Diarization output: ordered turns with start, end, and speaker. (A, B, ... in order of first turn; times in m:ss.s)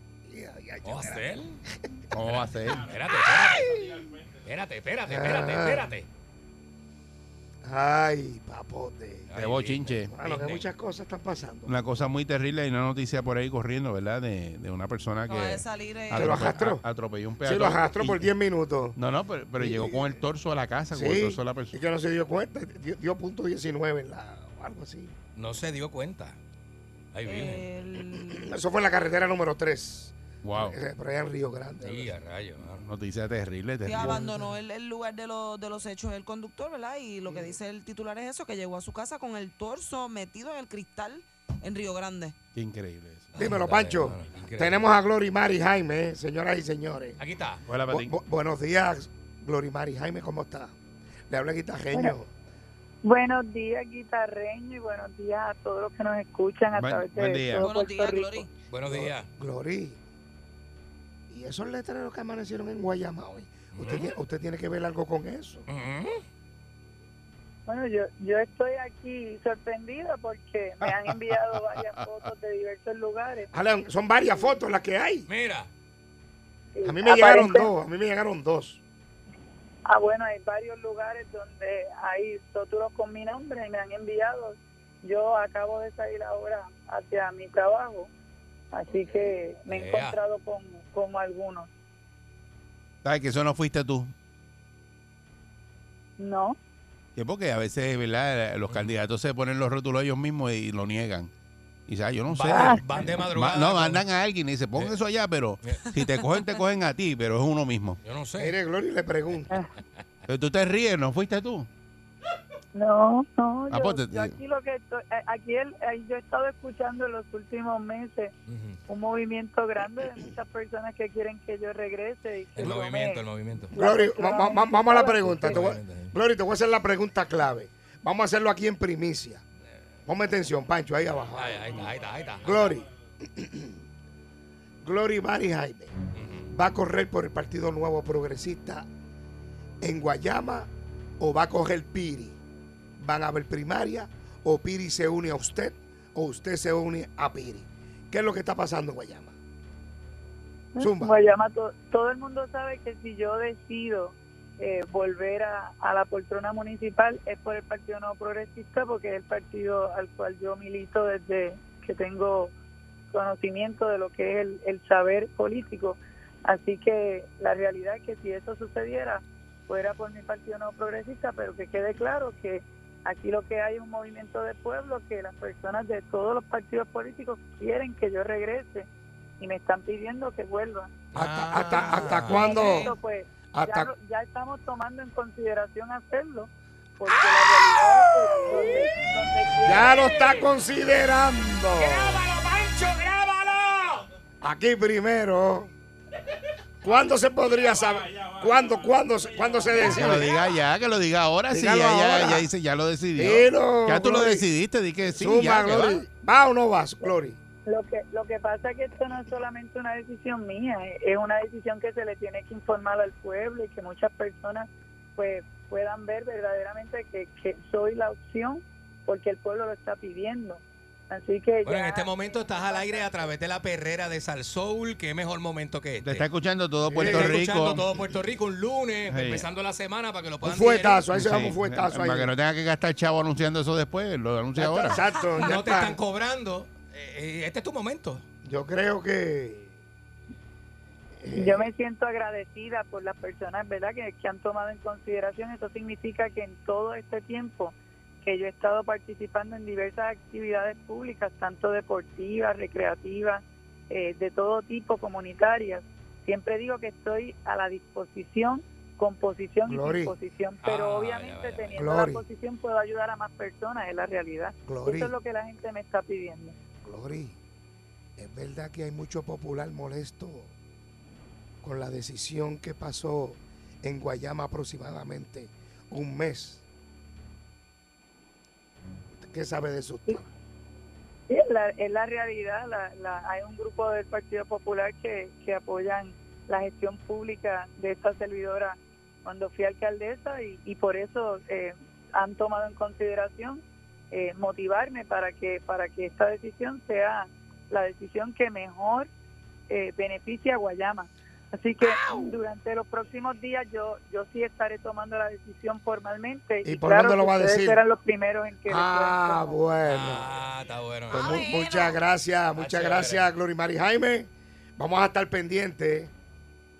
0:00.2-0:02.0 A
0:00.8-0:01.6 B
0:02.1-0:02.9 C
0:02.2-0:06.1 B
0:03.6-0:04.1 A
0:05.1-0:05.9 A
0:07.6-0:11.8 A
0:09.3-0:10.7 B
0:09.4-0:10.1 C
0:11.7-0:18.3 C
0:15.3-0:16.5 D
0:16.1-0:16.8 A
0:17.4-0:19.0 A
0:19.0-0:21.8 C
0:19.6-0:20.2 A
0:20.9-0:25.2 A
0:25.4-0:26.4 B
0:27.1-0:27.7 B
0:27.3-0:28.5 D
0:28.1-0:32.1 A
0:30.4-0:30.8 C
0:31.8-0:32.8 B
0:32.7-0:34.3 C
0:33.8-0:42.4 D
0:34.0-0:34.3 A
0:37.3-0:37.5 A
0:42.6-0:43.3 C
0:43.4-0:44.9 B
0:43.4-0:47.2 A
0:47.2-0:47.6 B
0:47.7-0:48.1 C
0:47.9-0:50.7 A
0:51.3-0:52.3 A
0:53.0-0:58.5 E
0:56.7-0:57.7 C
0:57.6-0:58.5 D
0:58.7-0:59.3 B
0:58.9-1:00.0 A
1:01.3-1:05.7 A
1:03.7-1:04.1 B
1:05.7-1:06.2 B
1:07.7-1:13.5 E
1:13.5-1:15.3 A
1:15.3-1:15.7 B
1:16.8-1:17.7 E
1:16.8-1:18.8 A
1:19.9-1:28.1 E
1:28.7-1:31.7 E
1:28.9-1:30.2 B
1:33.0-1:34.1 C
1:36.2-1:36.6 E
1:37.2-1:41.3 C
1:38.7-1:39.0 B
1:41.9-1:48.0 C
1:42.3-1:44.0 B
1:42.5-1:42.8 E
1:45.6-1:45.9 B
1:48.0-1:48.6 B
1:48.4-1:49.6 A
1:50.3-1:51.7 C
1:52.7-1:58.3 E
1:53.7-1:54.4 C
1:58.5-1:58.8 B
1:58.9-2:03.2 E
2:02.6-2:03.7 B
2:03.7-2:09.4 A
2:03.8-2:05.6 E
2:05.2-2:06.1 B
2:10.1-2:13.8 A
2:11.4-2:12.8 B
2:14.8-2:15.9 A
2:16.2-2:16.5 B
2:16.5-2:18.9 A
2:19.8-2:22.4 A
2:23.0-2:29.4 A
2:30.8-2:42.5 E
2:30.8-2:31.2 A
2:43.1-2:58.9 E
2:59.4-3:00.9 E
3:01.1-3:02.9 B
3:01.2-3:03.0 A
3:01.6-3:10.1 E
3:03.5-3:03.9 A
3:09.6-3:12.3 A
3:14.4-3:15.7 A
3:16.8-3:20.4 A
3:19.7-3:26.0 C
3:21.5-3:22.5 A
3:23.2-3:24.5 A
3:25.1-3:27.4 A
3:27.7-3:43.1 E
3:41.6-3:46.3 B
3:46.0-3:47.9 C
3:46.9-3:47.4 A
3:47.0-3:51.1 B
3:49.1-3:49.5 C
3:50.4-3:52.3 A
3:51.1-3:55.0 C
3:54.6-3:56.0 A
3:55.4-3:58.2 B
3:58.4-3:59.8 A
4:01.2-4:01.7 A
4:01.3-4:26.6 E
4:19.7-4:20.2 A
4:20.6-4:21.8 B
4:21.8-4:22.2 A
4:24.6-4:25.1 A
4:26.8-4:27.4 A
4:28.2-4:30.5 A
4:31.6-4:36.6 A
4:39.2-4:40.3 A
4:41.3-4:59.1 E
4:59.7-5:09.6 E
5:06.6-5:07.8 A
5:08.7-5:10.3 A
5:09.8-5:11.5 B
5:11.1-5:16.1 A
5:11.1-5:12.0 D
5:12.6-5:13.3 B